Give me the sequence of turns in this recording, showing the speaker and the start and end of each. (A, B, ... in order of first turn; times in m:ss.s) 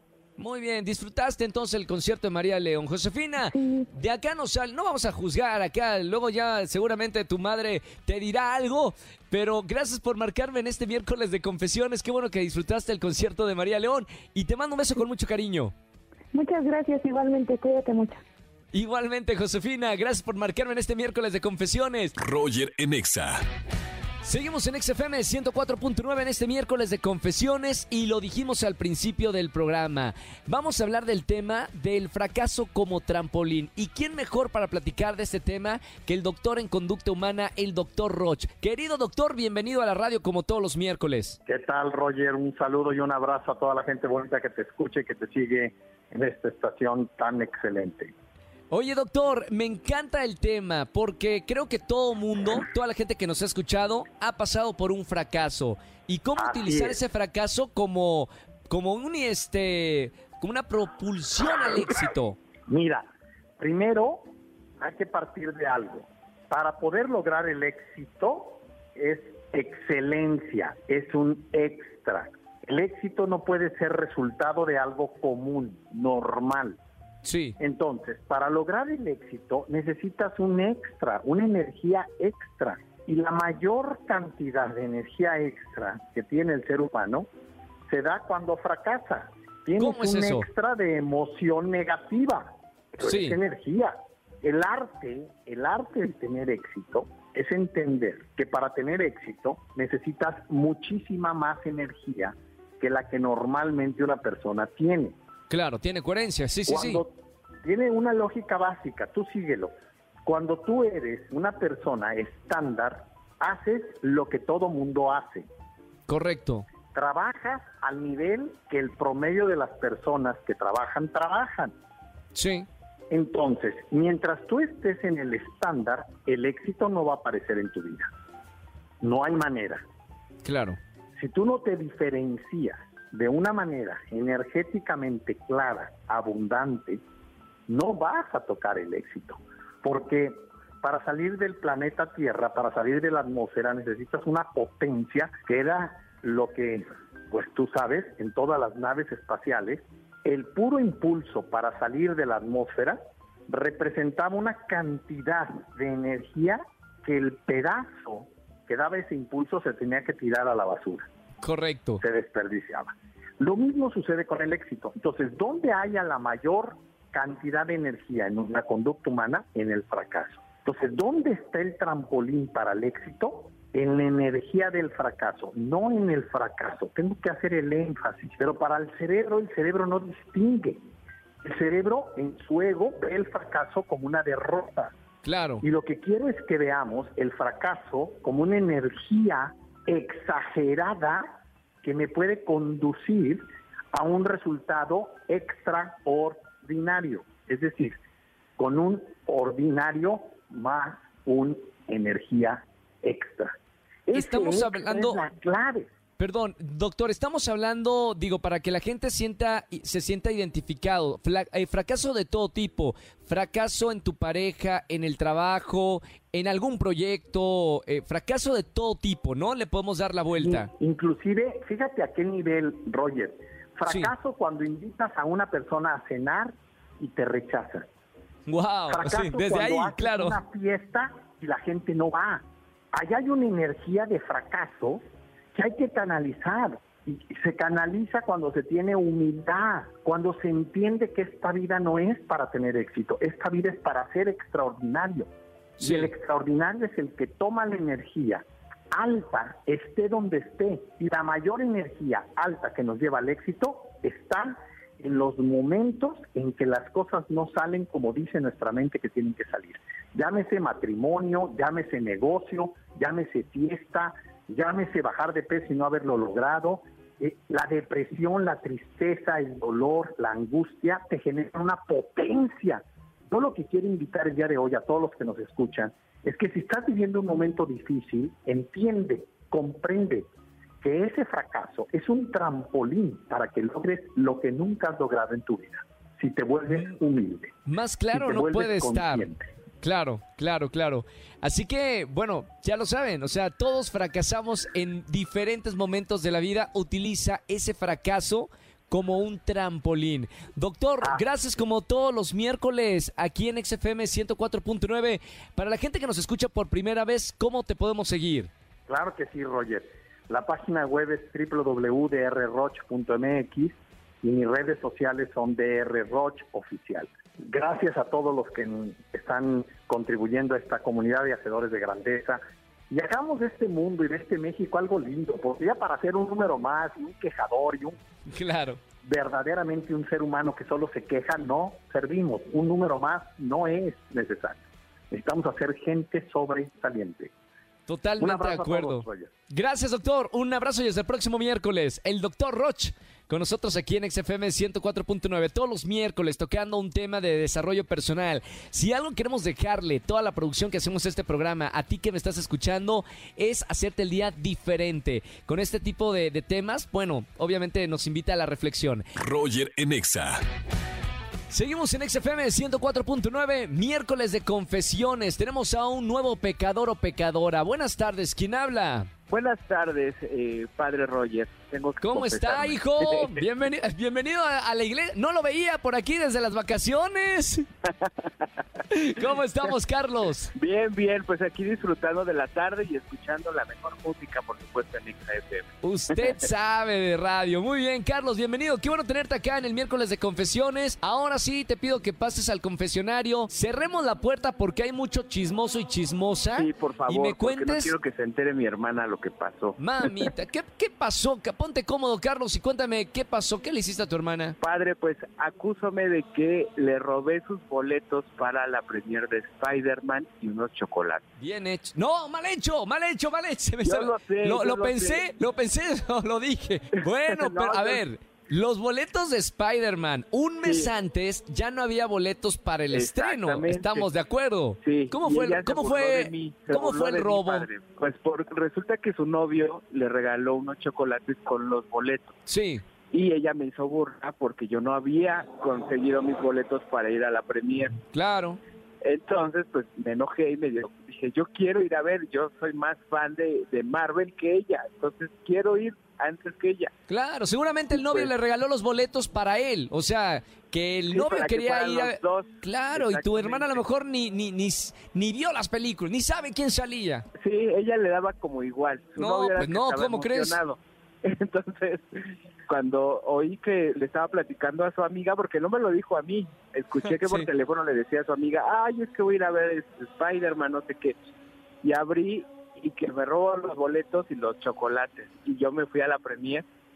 0:00.4-0:15.7 A
0:03.5-0:03.9 B
0:16.3-0:18.2 B
0:18.7-0:22.2 A
0:22.2-0:23.3 C
0:22.8-0:23.2 A
0:24.2-0:41.4 A
0:41.4-0:48.1 D
0:48.7-1:02.4 A
0:56.4-0:57.0 D
1:02.7-1:03.0 D
1:03.6-1:04.3 D
1:04.8-1:16.8 D
1:17.2-1:17.6 A
1:17.6-1:27.3 D
1:27.9-1:45.2 D
1:29.8-1:30.5 A
1:33.0-1:33.4 A
1:45.5-1:47.0 A
1:46.7-1:49.7 D
1:50.2-1:55.5 D
1:56.1-1:56.6 A
1:56.9-2:01.7 D
2:02.3-2:02.7 A
2:03.1-2:08.1 D
2:09.0-2:09.8 D
2:10.4-2:10.8 A
2:11.2-2:17.0 D
2:17.7-2:33.0 D
2:33.5-2:41.0 D
2:41.4-2:42.0 A
2:42.0-3:00.8 D
3:01.4-3:04.9 D
3:05.2-3:05.6 A
3:05.6-3:11.3 D
3:11.8-3:18.0 D
3:18.6-3:23.5 D
3:24.1-3:25.9 D
3:24.1-3:25.2 A
3:26.2-3:40.7 A
3:40.4-3:47.8 D
3:43.8-3:44.1 A
3:48.5-3:50.4 A
3:48.9-3:55.0 D
3:55.5-4:05.3 D
4:05.8-4:40.3 D
4:05.8-4:06.1 A
4:40.8-4:47.6 D
4:47.7-4:49.2 A
4:48.1-4:49.4 D
4:49.8-5:08.5 A
5:08.9-5:22.4 D
5:22.9-5:28.0 D
5:28.3-5:28.8 A
5:29.0-5:34.6 D
5:35.1-5:37.3 D
5:37.9-6:00.2 A
5:38.2-5:39.3 D
5:59.2-6:00.3 C
6:01.5-6:09.1 A
6:09.3-6:13.4 E
6:12.0-6:17.6 A
6:18.9-6:20.5 A
6:20.5-6:26.4 E
6:25.8-6:37.9 A
6:36.5-6:40.3 E
6:39.8-6:44.6 A
6:44.6-6:51.2 E
6:51.4-7:07.6 A
6:53.8-6:55.2 E
6:57.0-6:58.0 E
7:00.6-7:00.9 E
7:02.9-7:04.1 E
7:04.8-7:12.3 E
7:12.5-7:12.8 A
7:13.1-7:18.0 E
7:18.1-7:18.6 A
7:19.0-7:26.9 E
7:27.1-7:37.2 A
7:27.9-7:28.3 E
7:31.1-7:33.8 E
7:37.4-7:51.2 E
7:39.2-7:40.6 A
7:47.2-7:47.5 A
7:51.8-7:56.6 E